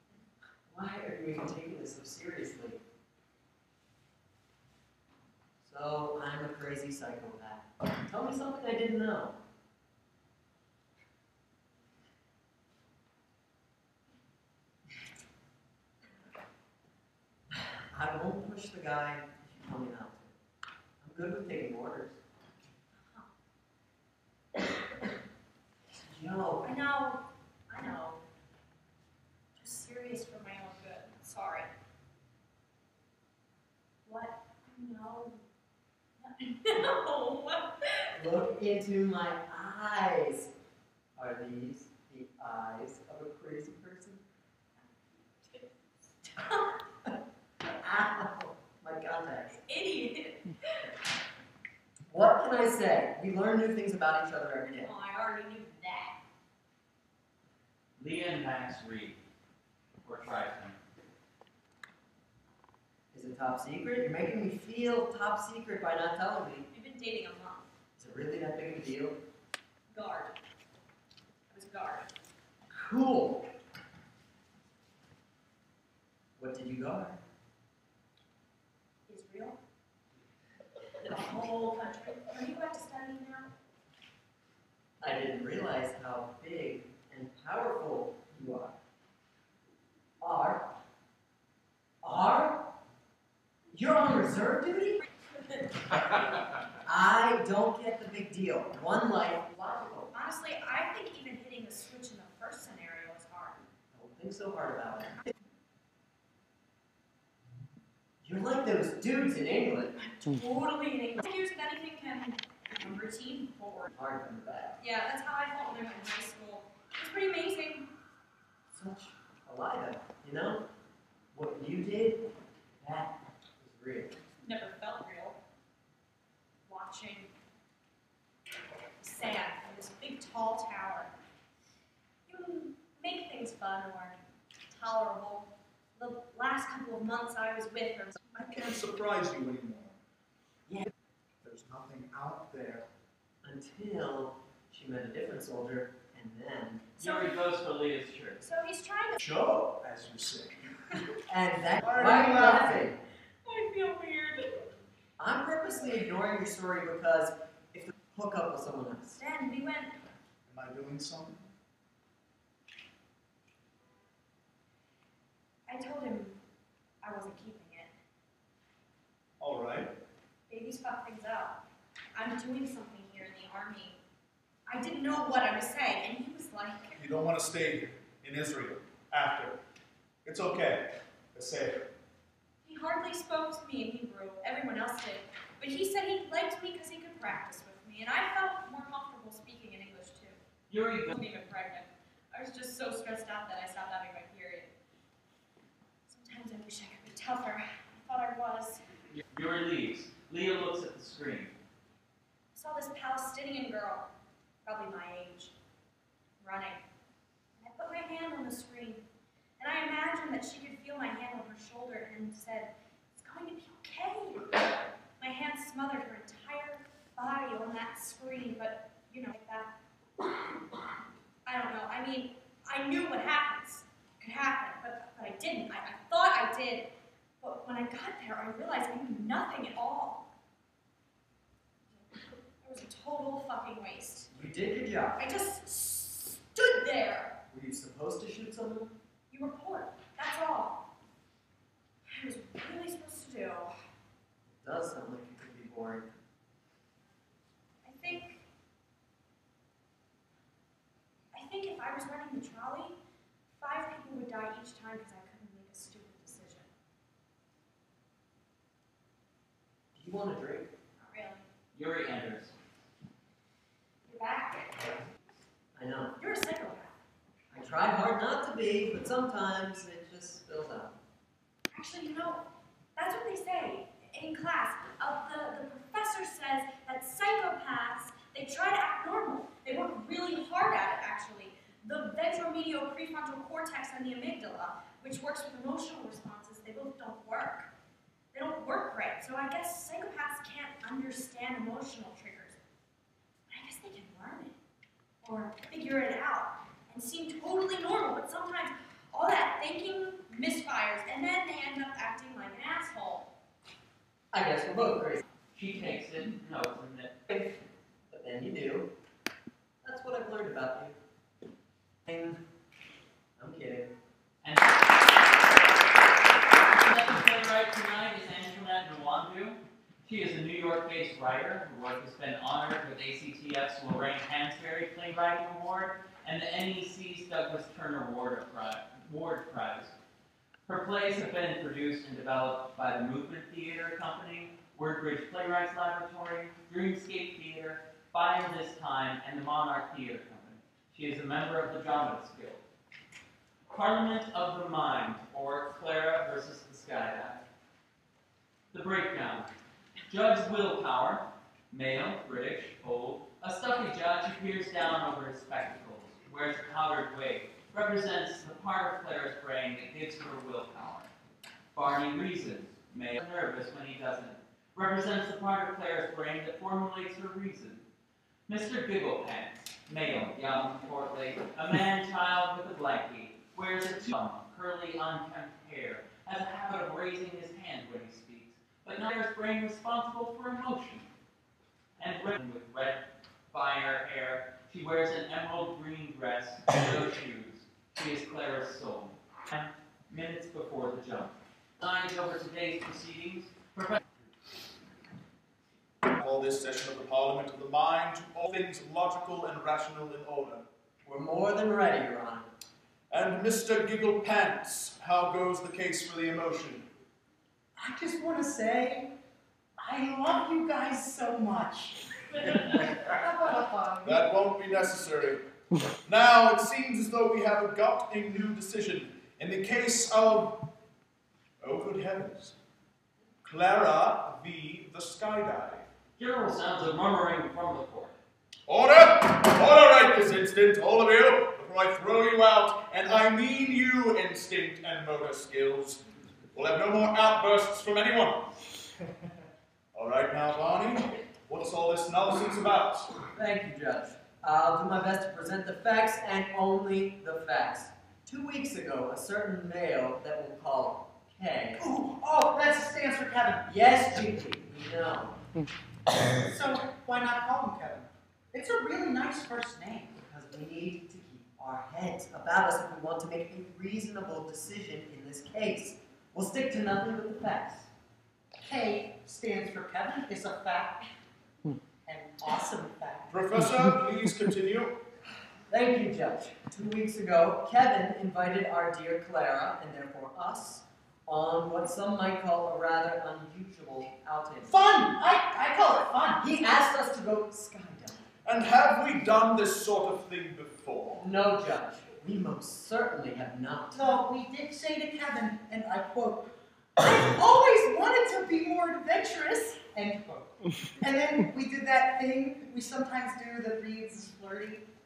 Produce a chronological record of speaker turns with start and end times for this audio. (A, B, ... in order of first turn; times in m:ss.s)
0:00.7-0:02.8 A
0:05.6-0:09.4 A
0:17.5-0:20.3 A
0:21.0-0:22.2 A
0:25.9-0:26.7 A
0:26.6-0:28.2 B
0:29.6-0:31.7 B
0:34.1-0:35.5 B
0:36.2-0:38.1 B
0:38.1-0:40.5 A
0:41.2-0:44.2 A
0:46.3-0:46.7 B
0:47.8-0:49.6 A
0:49.6-0:50.5 B
0:52.1-0:54.9 A
0:54.8-0:56.2 B
0:58.0-0:59.2 C
1:00.0-1:00.8 C
1:03.1-1:06.7 A
1:06.7-1:07.7 B
1:08.0-1:09.2 A
1:09.9-1:10.3 B
1:11.5-1:12.1 B
1:12.7-1:13.5 A
1:16.4-1:17.2 A
1:19.1-1:19.6 B
1:21.0-1:23.5 B
1:25.0-1:28.8 A
1:30.2-1:30.7 A
1:32.0-1:32.7 A
1:33.7-1:35.0 A
1:36.8-1:40.1 A
1:40.1-1:43.6 B
1:43.9-1:45.2 A
1:48.2-1:49.9 A
1:50.0-1:53.9 B
1:53.9-1:54.8 A
1:54.8-1:57.9 B
1:58.7-2:00.6 A
2:01.3-2:02.3 A
2:02.8-2:04.2 A
2:04.4-2:05.4 B
2:06.7-2:07.3 B
2:09.0-2:11.1 B
2:12.3-2:18.2 B
2:18.3-2:20.0 D
2:21.4-2:22.8 D
2:23.4-2:26.8 A
2:27.0-2:27.3 B
2:27.0-2:28.4 C
2:28.4-2:29.2 B
2:29.2-2:30.6 D
2:31.3-2:33.0 A
2:31.8-2:32.7 D
2:33.4-2:34.7 B
2:35.2-2:39.2 A
2:39.2-2:40.0 B
2:40.5-2:41.5 D
2:45.7-2:46.4 B
2:47.0-2:47.9 B
2:49.4-2:49.9 D
2:50.5-2:51.6 B
2:52.1-2:54.0 B
2:54.7-2:57.0 B
2:57.0-2:59.6 D
3:00.2-3:01.8 D
3:02.6-3:10.4 B
3:10.7-3:11.1 C
3:11.1-3:14.7 B
3:16.1-3:18.8 B
3:19.1-3:21.5 C
3:22.5-3:24.1 B
3:24.6-3:25.5 B
3:26.4-3:26.8 B
3:27.6-3:29.0 B
3:29.6-3:34.6 B
3:35.2-3:39.7 B
3:41.4-3:50.3 B
3:51.9-3:54.3 B
3:54.3-3:55.2 A
3:55.2-3:57.4 B
3:57.5-3:59.0 A
3:59.3-4:00.8 B
4:02.0-4:03.7 B
4:04.6-4:06.1 A
4:07.8-4:08.4 B
4:11.3-4:13.0 B
4:13.6-4:16.7 B
4:20.0-4:20.7 A
4:21.0-4:21.5 B
4:21.7-4:22.5 C
4:24.1-4:25.0 B
4:25.8-4:26.2 A
4:26.2-4:27.0 B
4:27.5-4:30.9 A
4:31.7-4:47.7 B
4:48.3-4:52.6 B
4:53.5-4:54.6 B
4:55.2-5:03.3 B
5:04.3-5:05.2 A
5:05.5-5:07.2 C
5:08.1-5:08.9 A
5:09.8-5:11.0 A
5:12.1-5:12.4 A
5:13.4-5:13.9 A
5:14.4-5:14.8 C
5:16.7-5:29.9 C
5:30.7-5:42.6 C
5:43.7-5:47.4 C
5:48.7-5:49.5 C
5:50.1-6:01.1 C
6:01.7-6:07.9 C
6:08.5-6:21.1 C
6:22.0-6:34.0 C
6:36.1-6:40.6 D
6:41.0-6:42.5 A
6:43.1-6:46.8 D
6:47.8-6:49.1 E
6:49.8-6:54.2 E
6:54.0-6:55.4 D
6:56.0-7:00.6 D
7:01.6-7:02.6 D
7:03.4-7:05.9 D
7:06.2-7:08.2 C
7:08.7-7:16.0 D
7:16.5-7:18.5 D
7:19.9-7:23.1 D
7:23.4-7:31.8 A
7:31.8-7:33.7 E
7:33.7-7:35.4 A
7:36.3-7:40.2 E
7:40.2-7:47.9 A
7:48.6-7:51.0 E
7:52.1-7:53.4 E
7:53.3-7:55.0 D
7:55.7-8:04.8 A
8:04.7-8:06.4 E
8:06.4-8:08.2 A
8:08.4-8:11.3 D
8:11.2-8:14.1 A
8:13.9-8:24.8 E